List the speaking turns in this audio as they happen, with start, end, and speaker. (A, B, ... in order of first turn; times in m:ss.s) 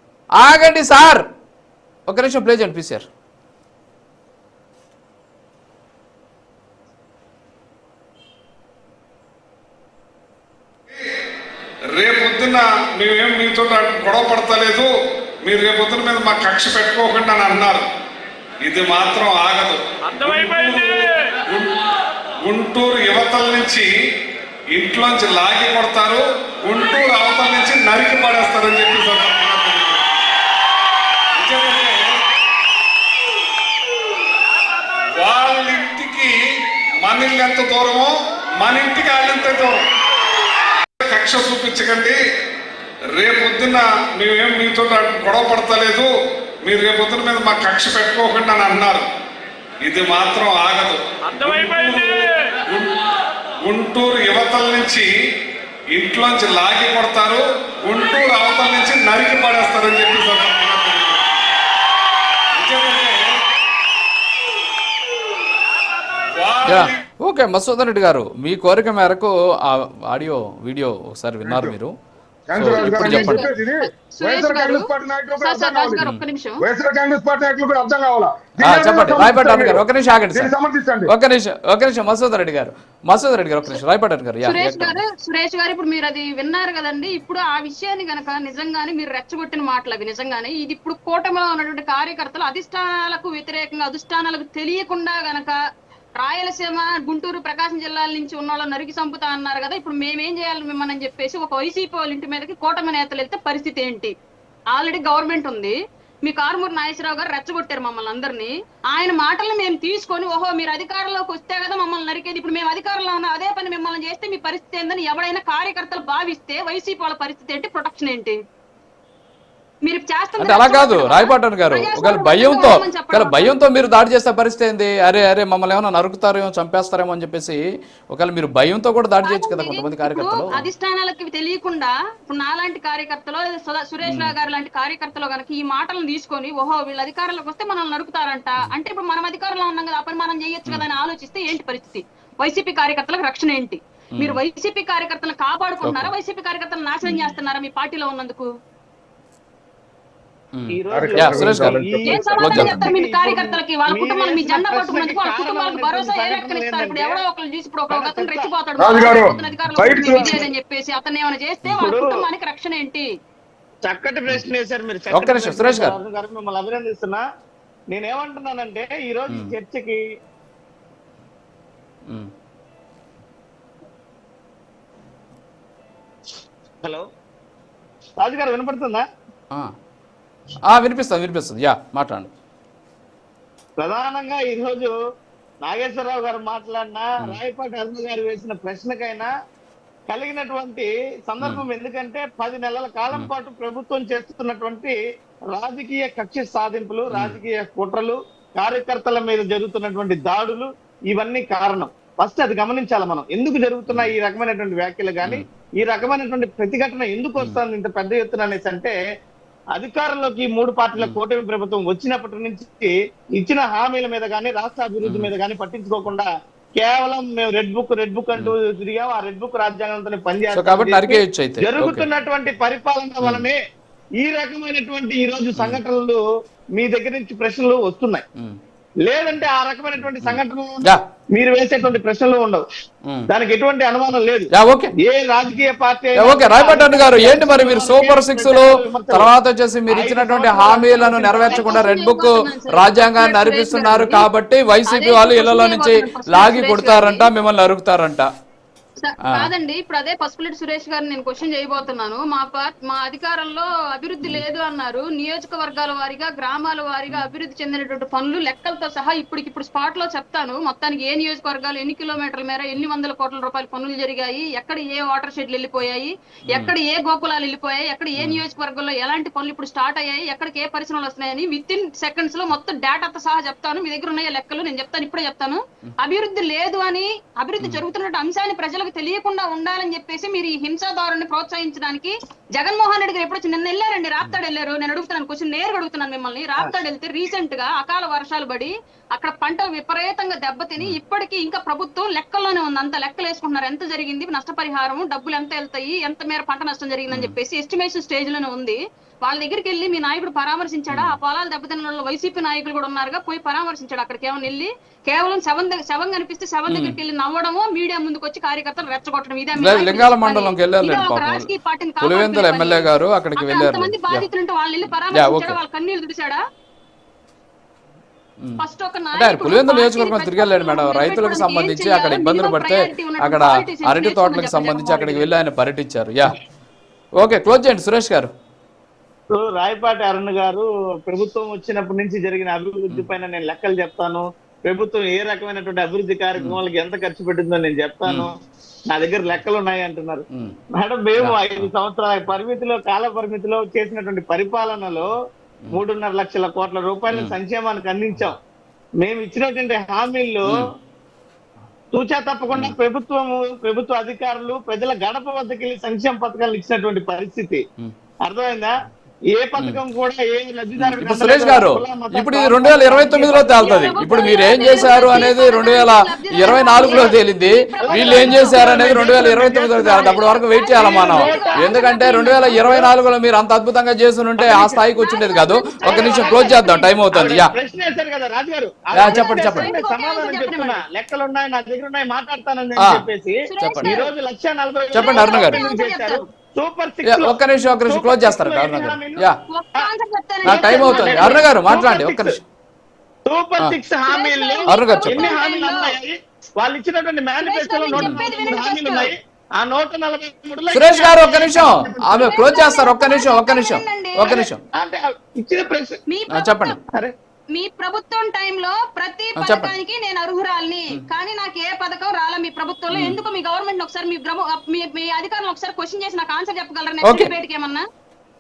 0:00.4-0:01.2 A
0:02.1-0:03.1 A
0:11.9-0:14.9 B
0:15.4-0:17.9 B
0:18.6-0:21.8 B
0:22.4-0:23.9 B
0:24.7-0:30.2 B
0:31.4-0:32.0 B
0:35.1-0:36.4 B
0:37.0-0:39.8 B
0:41.0-0:42.2 B
0:43.1-0:46.1 B
0:46.6-0:49.1 B
0:49.8-0:53.0 B
0:53.6-0:55.1 B
0:55.9-1:01.4 B
1:02.6-1:03.3 B
1:06.3-1:06.9 B
1:06.7-1:11.9 A
1:11.4-1:11.7 C
1:12.5-1:16.0 C
1:12.6-1:13.5 A
1:12.8-1:14.9 D
1:15.4-1:16.6 D
1:16.6-1:19.8 C
1:18.6-1:20.5 A
1:20.3-1:21.1 C
1:21.1-1:25.0 A
1:24.4-1:35.6 D
1:36.2-1:44.1 D
1:44.7-1:58.4 D
1:59.8-2:03.6 D
2:00.4-2:10.7 A
2:09.2-2:28.5 D
2:14.0-2:14.3 A
2:25.8-2:26.1 A
2:30.6-2:31.8 A
2:30.7-2:37.2 E
2:30.9-2:32.9 C
2:32.0-2:43.1 D
2:32.4-2:32.8 A
2:37.9-2:38.5 E
2:38.8-2:40.5 C
2:41.8-2:42.1 E
2:43.8-2:47.2 E
2:45.1-2:46.0 A
2:47.9-2:50.0 E
2:58.2-2:59.0 E
3:00.7-3:02.3 A
3:03.8-3:04.9 E
3:05.6-3:09.3 E
3:10.1-3:15.0 E
3:11.4-3:11.6 A
3:15.5-3:29.0 E
3:17.1-3:17.4 A
3:23.9-3:24.1 A
3:29.7-3:43.6 E
3:35.0-3:35.3 A
3:40.5-3:42.1 A
3:43.2-3:43.5 A
3:44.2-3:46.2 E
3:46.8-3:48.2 E
3:49.0-3:52.6 E
3:50.2-3:51.0 A
3:53.3-3:59.3 E
3:54.5-3:54.9 A
3:56.2-4:08.3 A
3:59.9-4:01.9 E
4:01.2-4:04.3 D
4:04.9-4:07.3 D
4:09.0-5:16.4 D
4:09.2-4:09.5 A
4:28.2-4:28.4 A
4:57.1-4:57.4 A
5:00.9-5:01.2 A
5:06.7-5:07.0 A
5:09.6-5:14.3 A
5:15.1-5:15.6 A
5:18.6-5:25.3 D
5:19.2-5:26.4 A
5:27.2-5:28.3 A
5:29.3-5:38.3 E
5:38.9-5:40.2 E
5:40.8-5:45.1 E
5:41.2-5:41.7 A
5:45.7-5:48.4 E
5:49.0-5:50.6 E
5:51.9-5:57.6 E
5:52.5-5:52.8 A
5:58.2-5:58.7 E
5:59.3-6:05.3 E
6:00.8-6:17.5 A
6:03.6-6:09.1 D
6:06.8-6:07.2 E
6:07.8-6:11.7 E
6:09.9-6:12.6 D
6:12.6-6:12.9 E
6:14.4-6:14.8 E
6:15.0-6:16.9 D
6:15.8-6:29.3 E
6:18.9-6:19.7 A
6:19.0-6:20.8 D
6:22.8-6:23.0 A
6:23.5-6:24.1 D
6:23.6-6:24.0 A
6:24.9-6:25.6 A
6:24.9-6:26.2 D
6:27.0-6:29.4 A
6:29.5-6:31.5 D
6:30.4-6:32.4 A
6:30.4-6:32.4 E
6:33.3-6:42.2 E
6:34.1-6:36.0 D
6:34.7-6:35.3 A
6:37.4-6:39.1 D
6:40.7-6:44.6 A
6:42.2-6:44.4 D
6:44.8-6:46.0 E
6:46.1-6:46.8 D
6:46.3-6:46.8 A
6:47.5-6:57.8 D
6:49.4-6:49.7 A
6:52.9-6:53.2 A
6:57.0-6:57.3 A